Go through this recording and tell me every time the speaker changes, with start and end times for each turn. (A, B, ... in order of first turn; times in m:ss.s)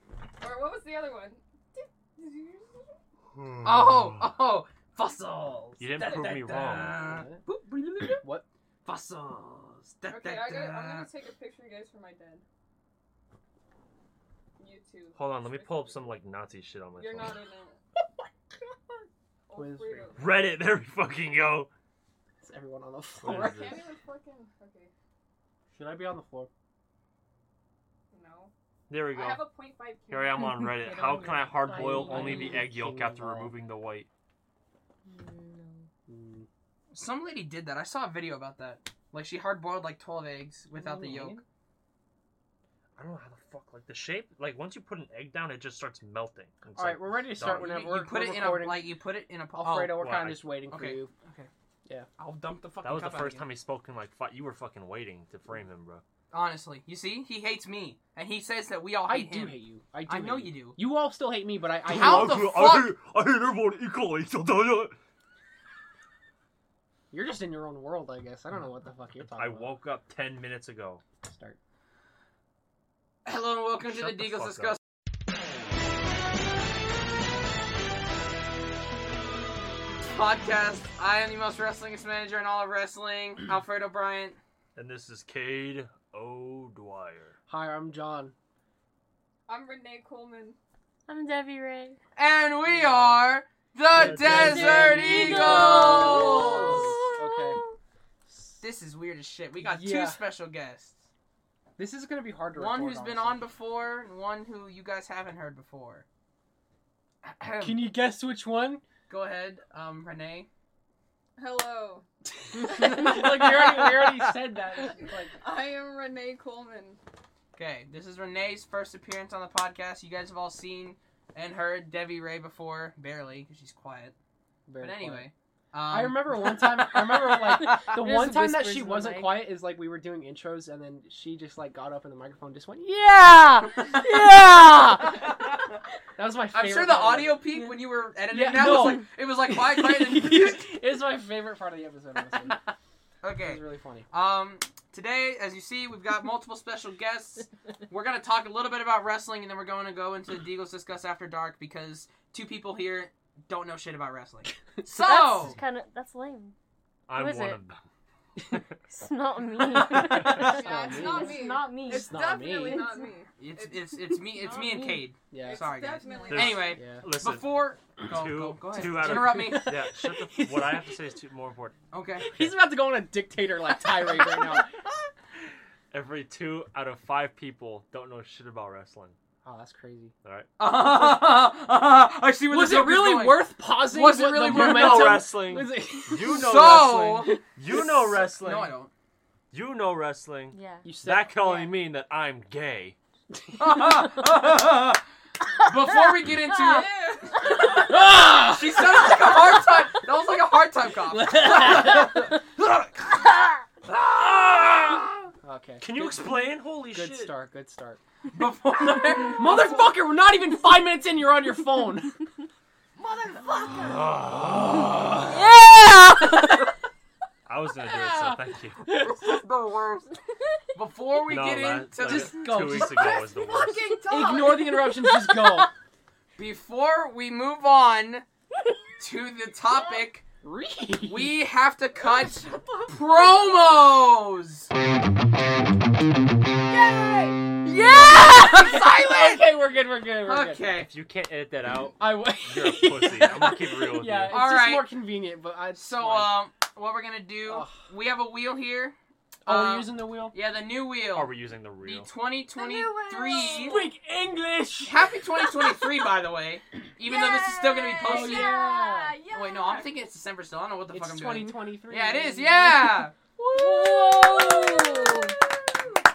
0:00.4-0:02.7 A
0:03.4-0:04.3 B
0:03.6-0:08.3 C
0:05.8-0:07.1 B
0:07.0-0:07.4 D
0:08.1-0:08.4 D
0:08.8-0:11.1 C
0:10.1-0:12.4 A
0:14.6-0:16.2 A
0:15.2-0:17.4 B
0:17.0-0:17.8 A
0:19.5-0:20.4 A
0:19.5-0:20.2 D
0:20.2-0:21.7 B
0:22.4-0:23.6 D
0:23.2-0:23.8 B
0:23.2-0:24.9 A
0:25.7-0:26.5 D
0:28.1-0:28.5 A
0:28.9-0:29.5 B
0:29.1-0:30.6 A
0:30.1-0:34.1 B
0:30.6-0:32.6 E
0:31.6-0:33.6 D
0:35.1-0:35.8 E
0:36.1-0:36.5 D
0:36.9-0:41.4 C
0:40.8-0:41.4 D
0:43.0-0:47.8 B
0:46.8-0:49.0 D
0:47.4-0:51.5 C
0:49.6-0:51.1 D
0:49.9-0:50.5 B
0:52.2-0:53.5 C
0:52.8-0:56.0 B
0:56.3-1:00.8 C
0:59.0-1:02.6 D
1:01.8-1:04.9 B
1:01.9-1:03.0 C
1:07.1-1:09.8 D
1:09.2-1:11.0 B
1:11.2-1:11.6 D
1:13.2-1:14.8 C
1:13.8-1:14.8 B
1:20.0-1:24.4 C
1:24.8-1:27.4 B
1:27.5-1:28.3 D
1:29.5-1:30.6 A
1:31.1-1:32.0 E
1:32.2-1:36.9 C
1:32.7-1:33.1 D
1:33.9-1:35.4 B
1:34.0-1:37.6 D
1:34.3-1:37.8 E
1:38.3-1:38.6 D
1:38.6-1:41.0 C
1:39.6-1:40.2 D
1:41.8-1:43.4 D
1:42.6-1:46.0 C
1:47.2-1:47.9 C
1:47.6-1:48.8 D
1:49.1-1:50.5 C
1:51.4-1:52.0 A
1:52.5-1:55.3 D
1:52.6-1:54.4 C
1:55.4-1:57.0 A
1:57.6-2:04.2 C
2:04.7-2:05.3 D
2:04.8-2:07.8 C
2:05.9-2:15.3 D
2:07.6-2:09.5 E
2:13.8-2:15.2 E
2:15.2-2:15.7 C
2:16.2-2:17.4 D
2:16.5-2:20.7 C
2:18.3-2:22.6 D
2:23.2-2:35.6 C
2:23.4-2:24.1 D
2:34.9-2:36.5 E
2:37.1-2:37.8 B
2:37.1-2:37.6 E
2:38.9-2:43.1 E
2:39.6-2:42.9 D
2:40.2-2:43.9 A
2:43.4-2:49.8 C
2:44.4-2:45.1 E
2:45.3-2:45.8 D
2:45.4-2:46.8 A
2:46.2-2:51.8 B
2:46.4-2:47.0 D
2:48.9-2:51.0 D
2:51.9-2:52.4 C
2:52.3-2:54.8 D
2:55.9-2:59.2 B
2:59.4-3:00.1 D
3:00.2-3:00.5 B
3:00.6-3:05.3 C
3:02.5-3:08.1 D
3:04.3-3:08.7 B
3:06.2-3:07.4 C
3:08.1-3:08.9 C
3:09.5-3:13.0 B
3:10.5-3:10.8 E
3:10.8-3:11.6 D
3:13.5-3:14.5 D
3:13.6-3:15.0 C
3:15.6-3:16.9 C
3:16.6-3:17.8 A
3:17.4-3:22.9 C
3:17.5-3:19.6 D
3:21.1-3:22.3 D
3:23.8-3:25.3 C
3:25.4-3:25.8 D
3:25.8-3:27.4 B
3:26.9-3:28.0 D
3:28.3-3:29.8 C
3:29.3-3:32.2 D
3:33.0-3:34.1 A
3:33.3-3:33.9 C
3:36.1-3:36.4 D
3:37.5-3:39.0 B
3:38.9-3:39.3 D
3:39.0-3:40.1 C
3:40.8-3:42.8 C
3:41.3-3:44.0 B
3:42.0-3:43.3 D
3:42.8-3:45.1 A
3:44.0-3:45.7 D
3:46.4-3:48.2 C
3:49.0-3:50.2 C
3:50.4-3:51.4 D
3:51.1-3:54.7 C
3:52.0-3:53.8 A
3:56.7-3:57.6 A
3:57.6-3:59.5 C
3:57.9-4:00.7 D
4:00.2-4:00.9 C
4:00.8-4:04.5 B
4:02.0-4:06.4 D
4:04.3-4:04.9 C
4:05.8-4:08.9 C
4:07.4-4:07.8 D
4:09.4-4:10.3 D
4:09.4-4:13.9 C
4:11.1-4:12.1 B
4:12.6-4:13.9 A
4:13.4-4:15.9 D
4:14.8-4:18.6 C
4:17.1-4:20.0 A
4:18.0-4:19.2 D
4:19.3-4:23.1 C
4:20.9-4:23.1 D
4:23.6-4:25.9 A
4:23.6-4:25.3 E